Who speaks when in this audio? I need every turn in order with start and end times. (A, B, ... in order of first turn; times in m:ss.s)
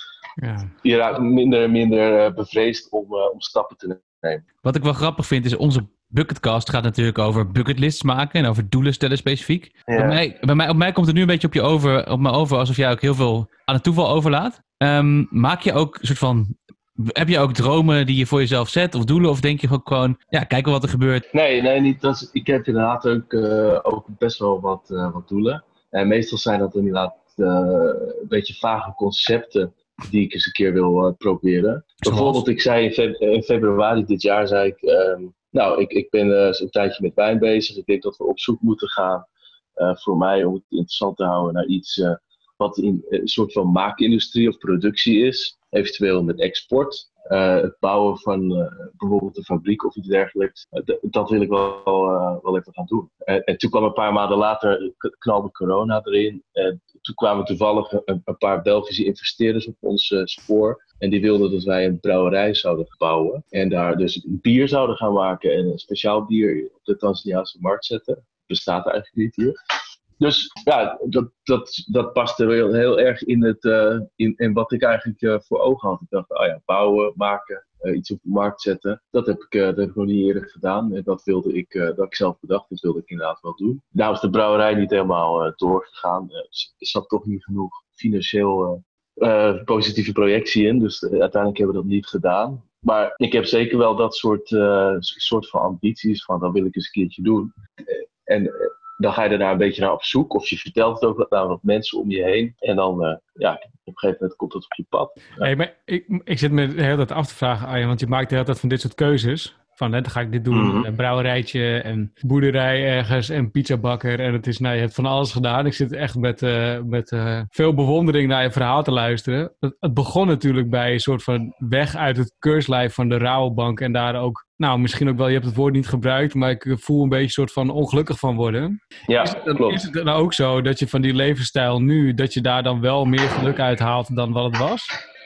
0:00.8-0:04.4 A
0:04.6-0:21.2 B
0:09.9-0:10.2 A
0:21.3-0:39.2 A
0:32.0-0:32.4 B
0:39.8-1:09.5 A
1:10.2-1:45.5 A
1:45.4-2:14.9 C
1:50.5-1:50.8 A
2:09.1-2:09.8 A